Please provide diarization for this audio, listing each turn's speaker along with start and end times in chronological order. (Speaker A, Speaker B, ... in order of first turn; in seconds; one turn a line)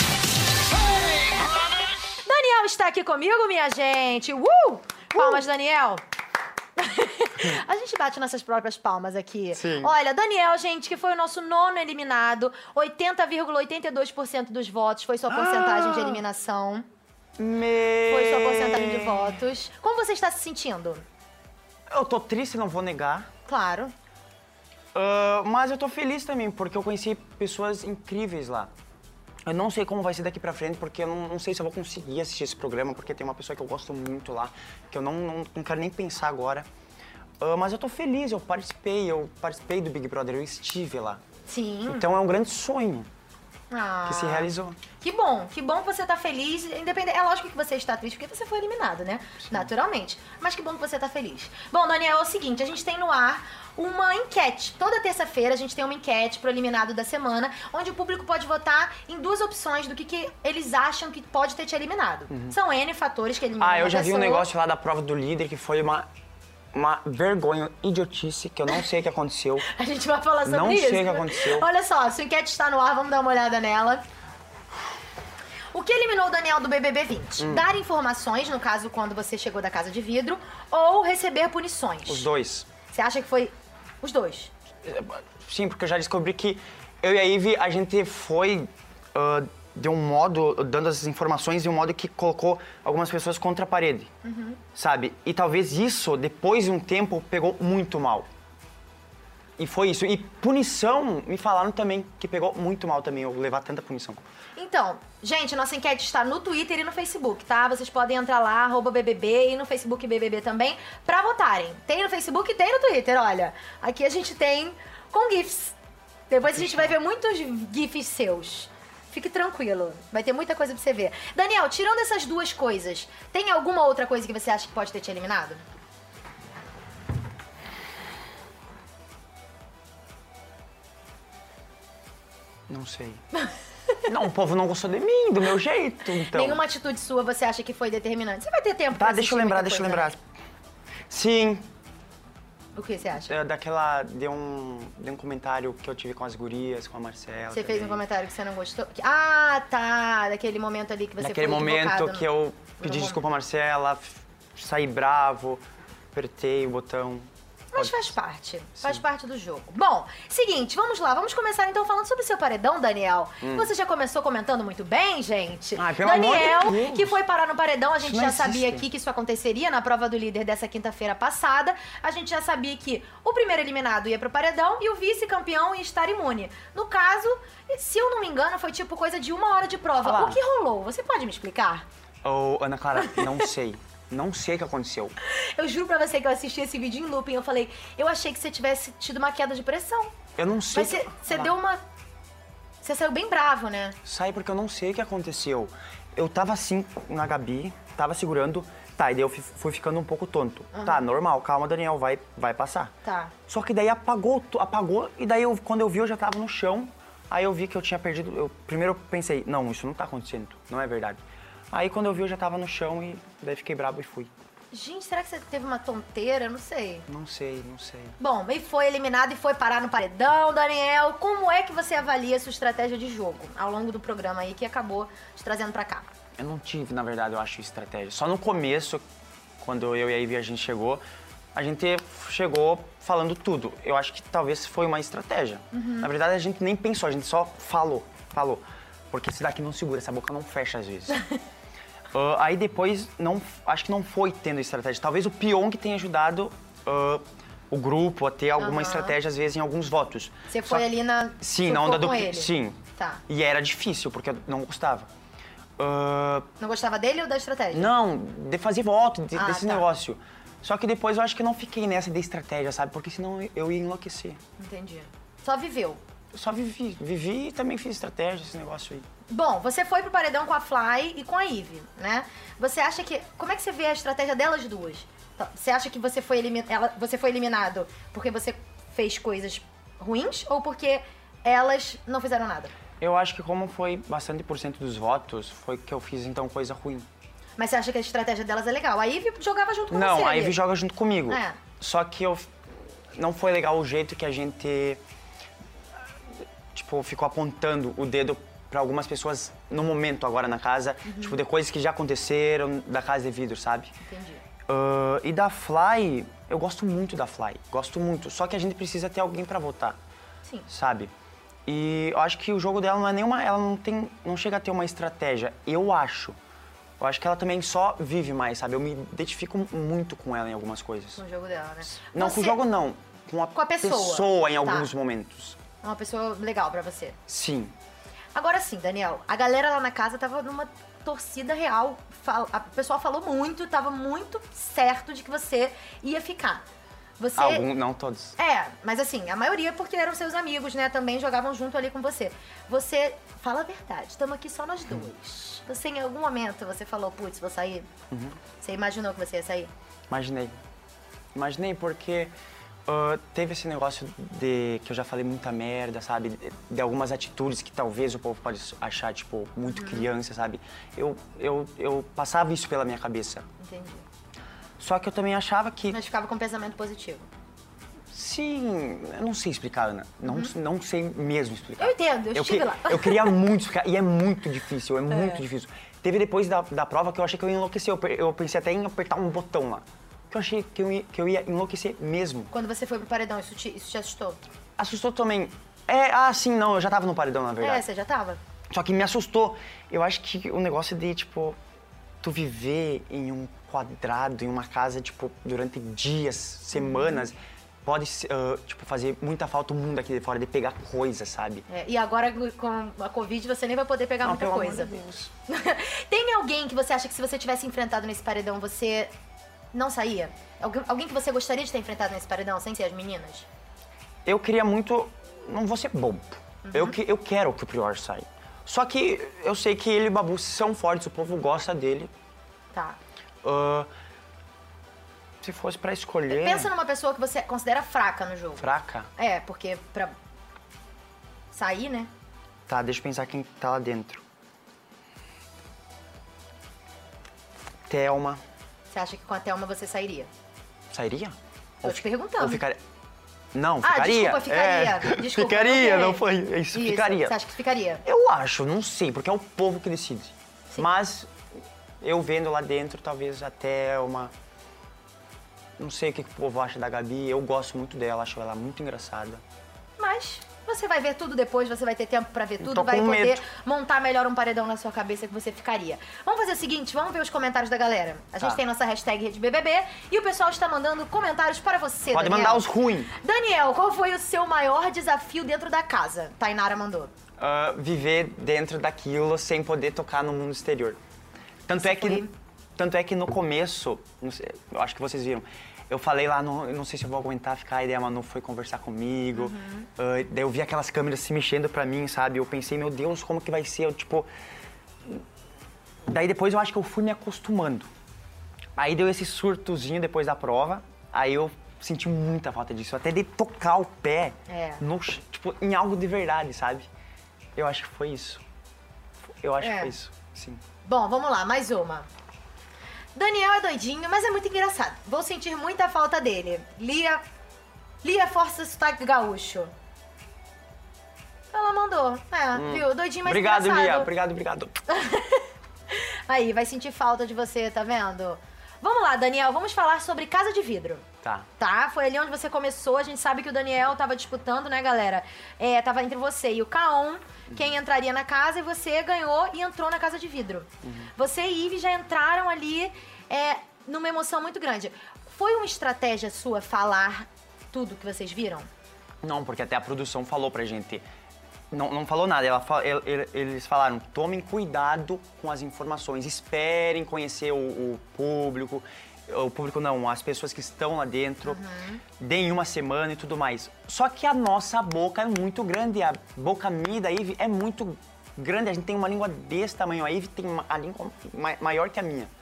Speaker A: 2.2-6.0
Speaker B: 5.1-5.4
Speaker A: 6.8-16.9
Speaker B: 9.6-9.9
Speaker B: 15.3-16.2
Speaker B: 17.4-19.4
Speaker A: 18.1-21.1
Speaker B: 21.9-23.3
Speaker A: 23.5-23.9
Speaker B: 24.9-28.7
Speaker B: 29.5-36.7
Speaker B: 37.4-41.2
Speaker A: 41.5-42.0
Speaker B: 41.9-43.1
Speaker A: 43.7-64.5
Speaker B: 44.1-44.8
Speaker B: 49.4-49.7
Speaker B: 62.3-62.6
Speaker B: 63.6-66.1
Speaker B: 66.7-69.7
Speaker A: 69.7-74.0
Speaker B: 70.5-71.7
Speaker A: 75.7-82.3
Speaker B: 77.4-77.7
Speaker B: 82.1-82.7
Speaker A: 82.9-84.5
Speaker B: 84.8-94.1
Speaker A: 94.2-94.6
Speaker B: 94.8-98.3
Speaker B: 99.6-104.2
Speaker A: 104.6-115.8
Speaker A: 116.3-125.6
Speaker B: 116.6-116.9
Speaker B: 132.7-133.2
Speaker A: 133.4-134.0
Speaker B: 134.1-136.6
Speaker A: 136.2-140.2
Speaker B: 138.9-140.2
Speaker B: 141.1-141.7
Speaker A: 142.8-143.3
Speaker B: 143.2-148.0
Speaker A: 147.5-153.2
Speaker B: 151.2-158.2
Speaker A: 157.7-181.9
Speaker B: 163.4-163.7
Speaker B: 165.8-167.2
Speaker B: 168.0-168.9
Speaker B: 180.0-180.4
Speaker B: 182.2-185.2
Speaker A: 183.0-183.2
Speaker A: 185.2-190.1
Speaker B: 190.4-191.6
Speaker A: 190.7-191.8
Speaker A: 192.8-194.0
Speaker B: 194.1-202.9
Speaker A: 200.7-201.1
Speaker A: 203.0-203.3
Speaker B: 203.5-214.3
Speaker A: 214.7-217.1
Speaker B: 217.1-218.2
Speaker A: 218.2-226.1
Speaker B: 226.4-229.0
Speaker B: 229.6-231.0
Speaker B: 231.5-241.2
Speaker A: 235.7-236.1
Speaker B: 242.1-250.9
Speaker A: 248.6-249.2
Speaker A: 250.5-253.2
Speaker B: 251.4-255.1
Speaker B: 255.8-256.5
Speaker A: 256.6-257.9
Speaker B: 257.7-264.4
Speaker A: 259.3-259.9
Speaker A: 264.6-266.0
Speaker B: 266.3-269.1
Speaker A: 269.3-282.7
Speaker B: 283.0-287.1
Speaker A: 287.6-290.6
Speaker B: 289.9-292.5
Speaker A: 291.3-291.6
Speaker B: 293.1-295.0
Speaker B: 296.3-303.9
Speaker A: 301.1-301.4
Speaker A: 304.0-304.4
Speaker B: 304.7-310.0
Speaker B: 310.7-311.1
Speaker B: 311.7-316.4
Speaker B: 317.0-321.2
Speaker A: 321.2-322.6
Speaker B: 321.9-325.6
Speaker A: 323.5-324.9
Speaker A: 325.8-327.2
Speaker B: 327.3-327.7
Speaker A: 328.4-336.6
Speaker A: 337.2-337.7
Speaker B: 337.4-338.4
Speaker A: 338.4-347.9
Speaker B: 348.1-348.4
Speaker A: 348.6-349.7
Speaker B: 350.1-350.6
Speaker B: 351.4-352.3
Speaker B: 352.9-363.5
Speaker A: 359.7-360.1
Speaker A: 363.6-364.1
Speaker B: 364.8-366.0
Speaker A: 365.9-367.3
Speaker B: 368.1-382.5
Speaker A: 370.2-370.5
Speaker A: 371.8-373.4
Speaker A: 375.1-375.4
Speaker A: 382.5-384.4
Speaker B: 384.8-387.9
Speaker A: 387.6-388.4
Speaker B: 388.7-391.6
Speaker B: 392.2-401.6
Speaker A: 396.7-397.3
Speaker A: 401.7-404.9
Speaker B: 404.2-405.3
Speaker A: 405.5-409.1
Speaker A: 409.7-413.5
Speaker B: 414.2-422.1
Speaker A: 416.6-417.0
Speaker A: 422.7-423.0
Speaker B: 423.4-423.9
Speaker B: 425.4-426.7
Speaker A: 426.3-430.1
Speaker B: 428.6-429.1
Speaker A: 431.5-432.1
Speaker B: 432.7-434.2
Speaker B: 437.9-438.4
Speaker A: 438.9-440.3
Speaker B: 440.9-442.8
Speaker A: 441.8-442.6
Speaker B: 443.5-447.4
Speaker A: 443.8-448.0
Speaker B: 448.1-451.3
Speaker B: 452.0-454.3
Speaker B: 455.8-459.4
Speaker A: 460.0-477.1
Speaker B: 462.6-463.4
Speaker B: 472.1-473.1
Speaker B: 477.4-481.0
Speaker B: 481.7-494.3
Speaker A: 481.8-482.3
Speaker A: 489.3-489.9
Speaker B: 496.1-497.9
Speaker B: 498.8-506.9
Speaker A: 504.5-504.8
Speaker B: 507.6-508.4
Speaker B: 509.3-510.6
Speaker A: 509.6-509.9
Speaker A: 510.8-512.1
Speaker A: 513.1-517.2
Speaker A: 518.0-519.7
Speaker A: 521.5-524.1
Speaker B: 522.5-524.8
Speaker A: 524.9-531.0
Speaker B: 531.2-531.5
Speaker A: 531.6-548.7
Speaker B: 540.8-541.1
Speaker B: 549.2-551.0
Speaker B: 551.7-561.6
Speaker A: 561.5-562.0
Speaker B: 562.2-572.3